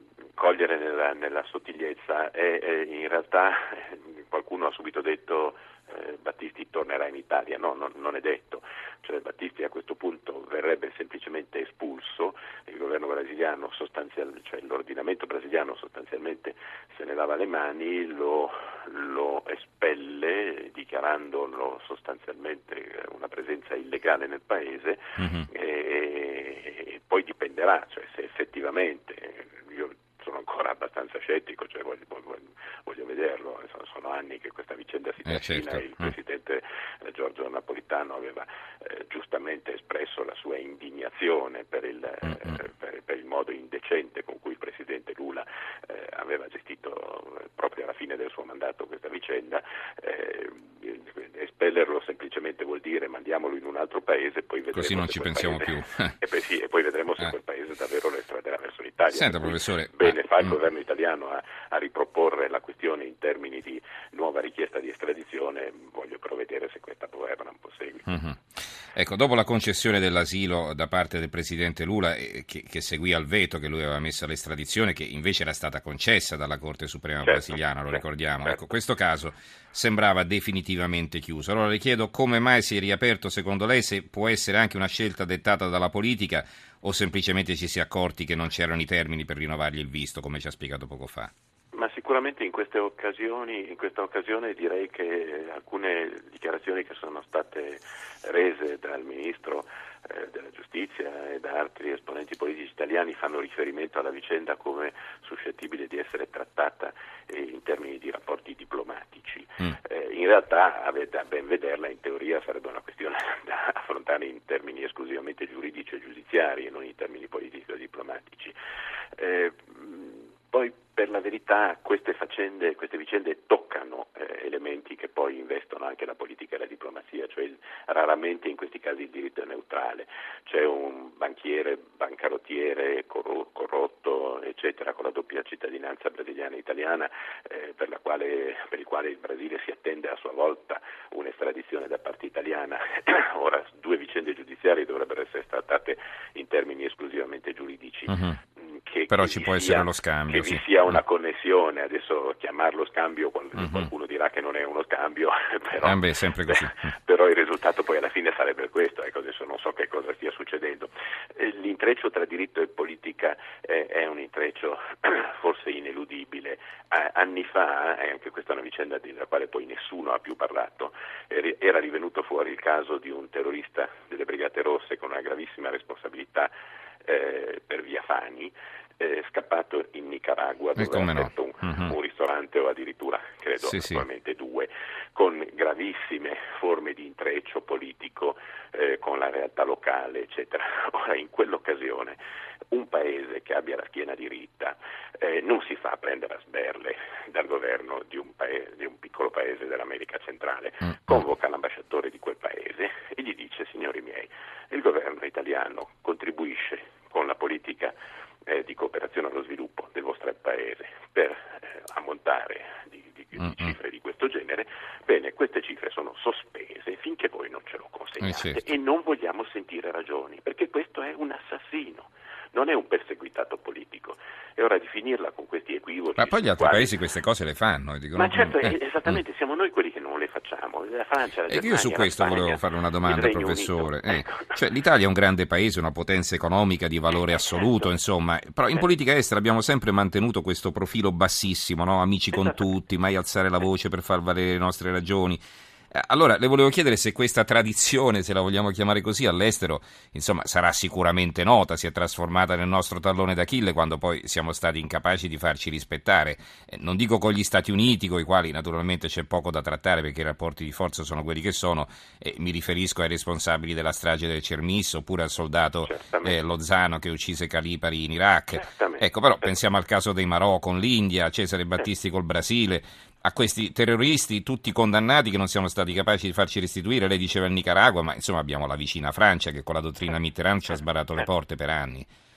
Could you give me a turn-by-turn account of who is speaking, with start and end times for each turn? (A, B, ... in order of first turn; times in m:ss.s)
0:00.4-1:08.2 A
0:25.2-0:25.5 B
0:35.3-0:36.1 B
0:54.7-0:56.2 B
0:59.1-1:00.6 B
1:08.1-1:08.4 B
1:08.9-1:31.3 B
1:17.2-1:18.6 A
1:31.7-1:58.6 A
1:59.2-2:56.5 A
2:28.1-2:28.4 B
2:29.1-2:31.0 B
2:33.6-2:33.9 B
2:35.8-2:36.9 B
2:57.0-3:12.2 A
3:00.8-3:01.9 B
3:03.6-3:04.0 B
3:12.7-3:28.0 A
3:28.5-3:47.0 A
3:33.4-3:33.8 B
3:38.2-3:38.6 B
3:46.2-3:49.1 B
3:48.1-3:54.6 A
3:51.5-4:05.4 B
3:57.1-3:57.9 A
4:02.3-4:02.7 A
4:05.9-4:42.1 B
4:25.8-4:26.4 A
4:28.6-4:29.6 A